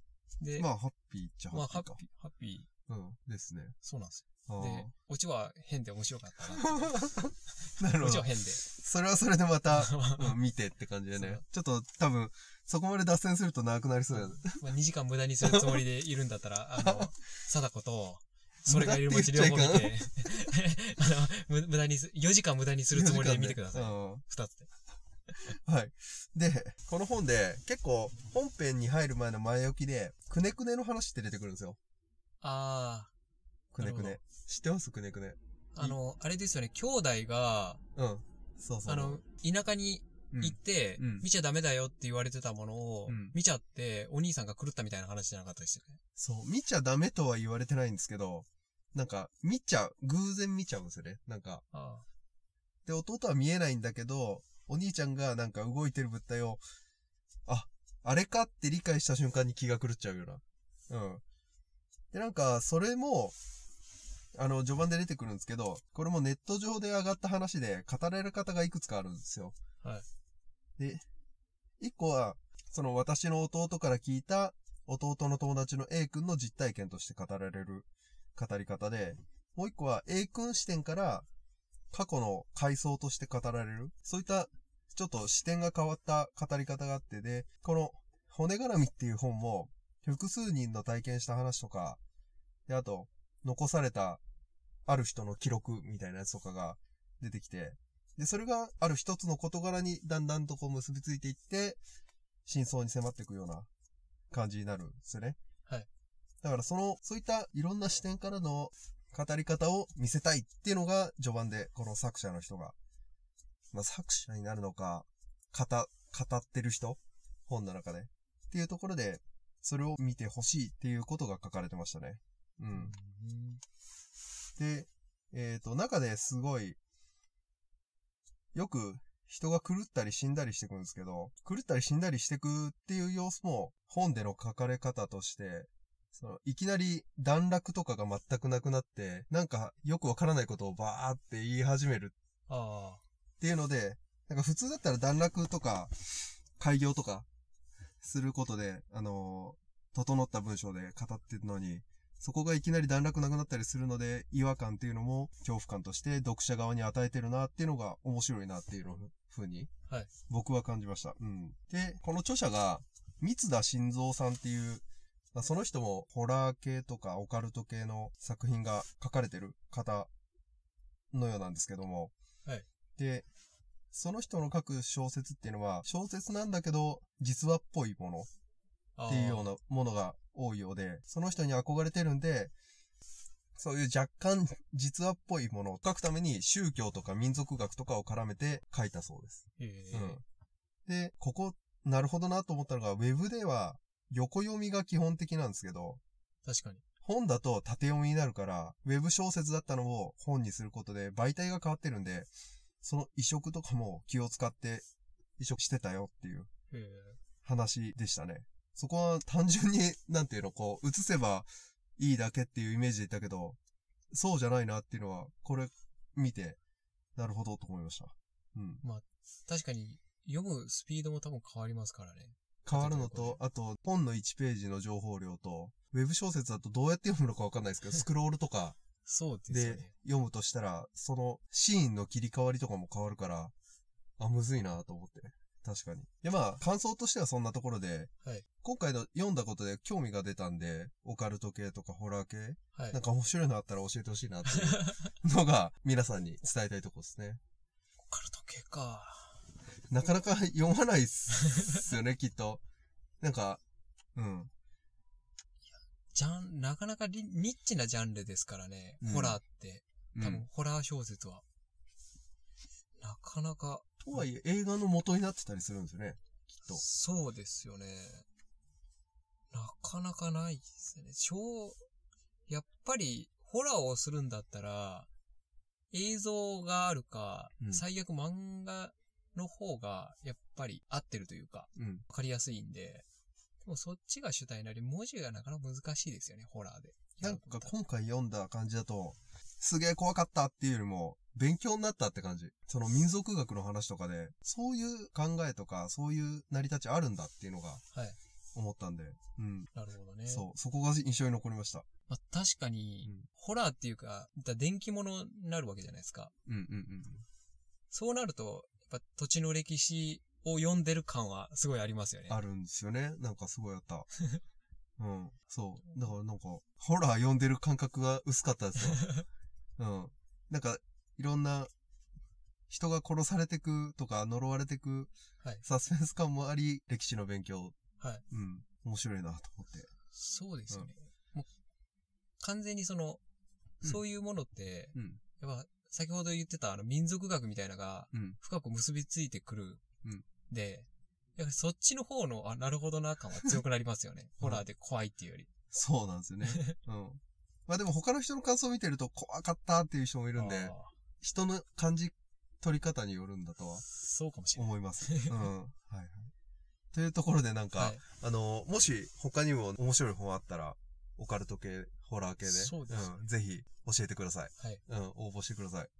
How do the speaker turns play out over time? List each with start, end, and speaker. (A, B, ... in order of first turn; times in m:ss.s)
0:00.4-0:00.7 A
0:00.6-0:02.0 B
0:01.5-0:02.7 A
0:02.9-0:03.7 B
0:03.8-0:07.0 A
0:04.5-0:04.9 B
0:06.6-0:14.6 B
0:07.9-0:08.6 A
0:09.7-0:10.4 A
0:11.1-0:11.4 A
0:14.1-0:24.7 A
0:15.4-0:15.8 B
0:16.8-0:17.1 B
0:18.7-0:20.0 B
0:22.9-0:24.2 B
0:25.5-0:31.8 B
0:32.4-0:33.1 A
0:33.7-0:36.0 B
0:33.8-0:34.2 A
0:35.7-0:37.8 A
0:38.0-0:39.2 B
0:38.8-0:46.0 A
0:40.3-0:41.3 B
0:43.1-0:43.4 B
0:46.2-0:51.6 B
0:51.7-0:52.0 A
0:52.8-0:56.6 B
0:57.4-1:01.2 B
1:02.1-1:03.3 B
1:04.3-1:09.6 B
1:10.8-1:11.0 B
1:11.8-1:21.3 B
1:21.9-1:32.0 B
1:32.7-1:34.2 B
1:34.8-1:41.8 B
1:42.4-1:43.7 B
1:44.3-1:45.4 B
1:46.4-1:52.7 B
1:53.7-2:02.9 B
2:02.7-2:03.6 A
2:04.6-2:06.8 B
2:08.5-2:22.1 B
2:22.5-2:23.0 A
2:23.4-2:27.2 B
2:28.0-2:39.7 B
2:40.3-2:50.1 B
2:51.1-2:52.1 B
2:53.0-2:53.2 B
2:53.9-2:58.3 B
2:59.0-2:59.5 A
2:59.1-3:02.5 B
3:03.6-3:10.2 B
3:09.6-3:10.2 A
3:10.9-3:16.0 B
3:16.4-3:16.8 A
3:17.0-3:22.3 B
3:22.8-3:24.8 B
3:25.4-3:26.5 B
3:26.7-3:27.2 A
3:27.4-3:33.6 B
3:34.1-3:36.6 B
3:37.2-3:38.8 B
3:38.8-3:43.4 A
3:42.6-3:48.8 B
3:49.0-3:49.9 A
3:49.5-3:53.5 B
3:54.2-3:58.1 B
3:58.6-4:07.4 B
4:04.5-4:05.1 A
4:08.1-4:09.4 A
4:09.9-4:12.6 B
4:11.5-4:11.8 A
4:13.2-4:13.6 B
4:14.1-4:14.5 B
4:16.1-4:21.4 A
4:19.0-4:19.4 B
4:20.1-4:20.4 B
4:23.0-4:24.2 A
4:24.0-4:26.8 B
4:26.6-4:28.2 A
4:29.5-4:31.8 A
4:32.5-4:35.1 A
4:35.9-4:43.0 A
4:41.8-4:42.0 B
4:43.6-4:47.7 A
4:47.2-4:57.8 B
4:58.5-4:59.7 B
4:59.7-5:00.4 A
5:00.3-5:01.8 B
5:02.1-5:06.3 A
5:06.4-5:07.2 B
5:07.9-5:12.4 A
5:12.3-5:14.1 B
5:15.0-5:19.1 B
5:18.8-5:19.2 A
5:19.8-5:21.7 B
5:22.7-5:25.1 B
5:25.6-5:27.7 B
5:28.3-5:29.9 B
5:30.1-5:31.5 A
5:32.4-5:33.2 A
5:33.8-5:39.8 A
5:34.9-5:35.2 B
5:38.1-5:38.4 B
5:40.5-5:45.5 A
5:45.7-5:53.8 B
5:46.4-5:46.7 A
5:50.3-5:50.9 A
5:53.9-5:55.4 A
5:54.5-5:56.3 B
5:56.9-6:05.9 B
6:02.4-6:03.1 A